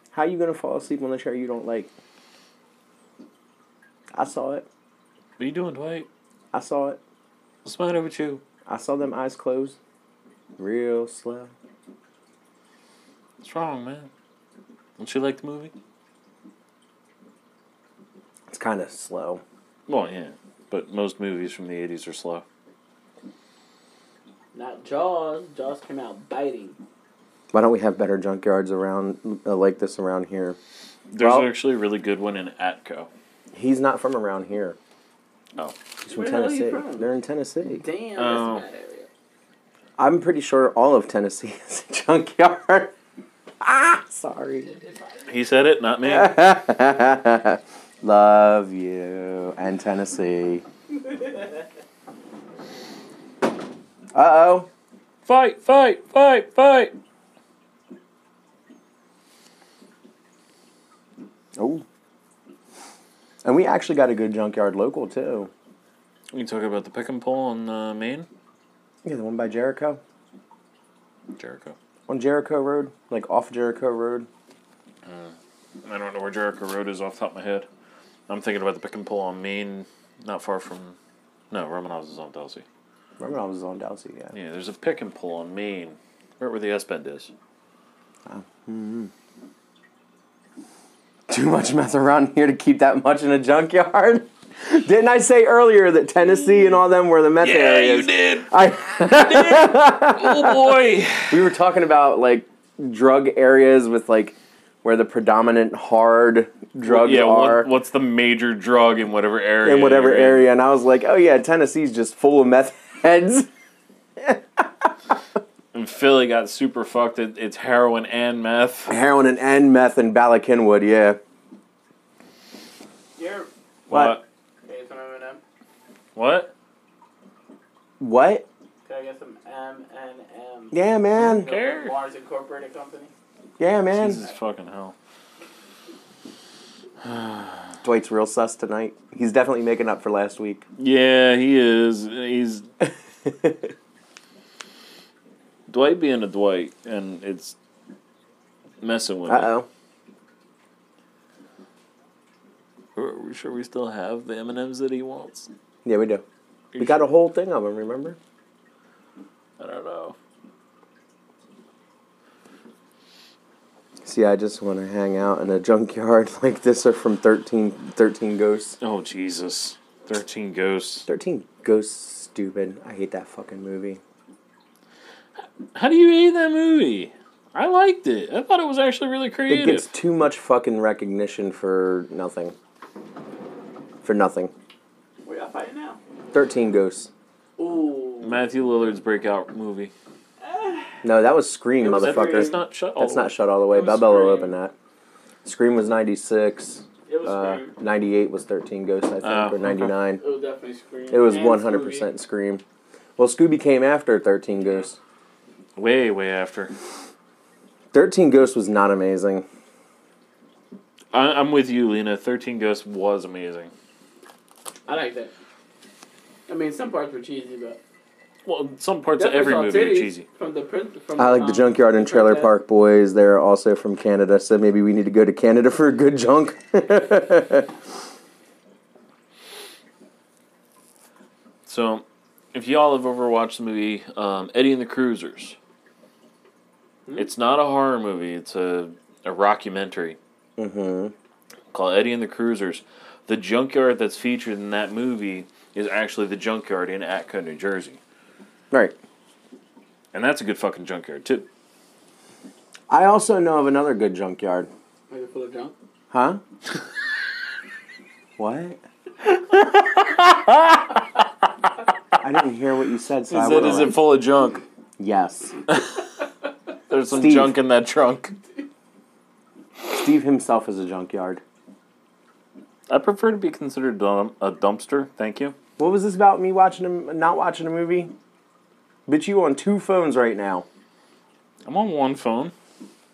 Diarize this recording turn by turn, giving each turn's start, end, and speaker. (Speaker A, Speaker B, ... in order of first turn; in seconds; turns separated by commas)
Speaker A: 0.1-1.9, Speaker A: 4.1-4.7, Speaker B: 5.4-6.1, Speaker A: 6.5-7.0, Speaker B: 7.6-8.4, Speaker A: 8.7-9.8, Speaker A: 10.6-11.5, Speaker B: 13.4-14.1, Speaker B: 15.0-15.7, Speaker A: 18.5-19.4, Speaker B: 19.9-22.4, Speaker C: 24.5-26.8, Speaker A: 27.5-30.6, Speaker B: 31.1-33.1, Speaker A: 31.2-31.5, Speaker A: 33.5-34.8, Speaker A: 36.0-37.8, Speaker C: 36.1-37.1, Speaker C: 37.7-39.1, Speaker B: 38.2-38.6, Speaker A: 40.0-42.9, Speaker A: 43.6-44.7, Speaker C: 44.6-45.4, Speaker B: 45.3-46.4, Speaker A: 46.0-50.6, Speaker A: 54.1-54.7, Speaker B: 55.2-57.0, Speaker A: 61.6-61.8, Speaker A: 63.4-65.5, Speaker B: 66.3-68.3, Speaker A: 69.0-70.0, Speaker B: 71.4-71.8, Speaker A: 72.1-74.3, Speaker B: 75.0-77.7, Speaker B: 78.3-81.0, Speaker B: 81.5-82.6, Speaker A: 83.2-84.3, Speaker B: 84.3-87.3, Speaker A: 88.3-89.1, Speaker A: 91.3-100.7, Speaker B: 97.4-101.5, Speaker A: 101.3-107.7, Speaker B: 106.8-110.5, Speaker A: 109.6-113.5, Speaker A: 114.2-114.9, Speaker B: 115.7-119.0, Speaker A: 118.9-121.2, Speaker C: 123.2-123.5, Speaker B: 123.9-124.2, Speaker A: 123.9-124.2, Speaker C: 124.7-125.4, Speaker B: 126.2-126.5, Speaker A: 128.0-128.5, Speaker C: 128.8-133.1, Speaker A: 130.7-131.5, Speaker B: 131.2-131.9, Speaker A: 133.6-134.2, Speaker B: 133.9-134.9, Speaker B: 137.0-137.7, Speaker A: 137.8-140.6, Speaker B: 140.8-142.7, Speaker A: 143.2-143.7, Speaker B: 145.7-147.6, Speaker B: 148.8-149.5, Speaker A: 149.3-149.7, Speaker B: 153.0-155.5, Speaker A: 155.8-156.2, Speaker B: 156.7-157.1, Speaker A: 156.8-158.2, Speaker B: 159.6-160.2, Speaker A: 164.0-168.8, Speaker B: 168.8-171.1, Speaker A: 171.1-174.0, Speaker B: 175.4-179.9, Speaker A: 179.5-182.6, Speaker A: 184.0-184.5, Speaker C: 185.2-186.0, Speaker A: 186.3-187.1, Speaker C: 187.6-188.4, Speaker B: 188.2-189.9, Speaker C: 190.4-191.0, Speaker A: 191.0-194.7, Speaker C: 191.8-192.6, Speaker B: 191.9-193.3, Speaker C: 193.7-194.6, Speaker A: 195.4-200.2, Speaker C: 197.1-197.7, Speaker B: 199.2-199.9, Speaker C: 200.2-202.1, Speaker A: 201.1-202.6, Speaker A: 203.2-205.0, Speaker B: 205.8-206.7, Speaker A: 207.9-209.5, Speaker B: 211.1-213.7, Speaker C: 214.9-215.3, Speaker C: 216.5-217.8, Speaker B: 218.4-220.3, Speaker C: 219.2-222.5, Speaker A: 221.2-227.7, Speaker B: 231.7-235.6, Speaker B: 237.2-240.2, Speaker A: 240.6-241.1, Speaker B: 241.7-248.0, Speaker A: 248.7-249.0, Speaker B: 250.1-251.5, Speaker A: 252.9-254.7, Speaker C: 255.1-255.8, Speaker A: 256.1-256.4, Speaker A: 258.4-258.8, Speaker B: 259.5-260.9, Speaker A: 262.2-264.0, Speaker B: 263.3-264.6, Speaker A: 265.0-265.6, Speaker B: 265.7-266.0, Speaker B: 266.9-268.4, Speaker A: 267.1-267.6, Speaker A: 269.8-271.4, Speaker B: 272.9-275.6, Speaker A: 275.8-278.1, Speaker A: 279.1-280.7, Speaker B: 281.6-282.5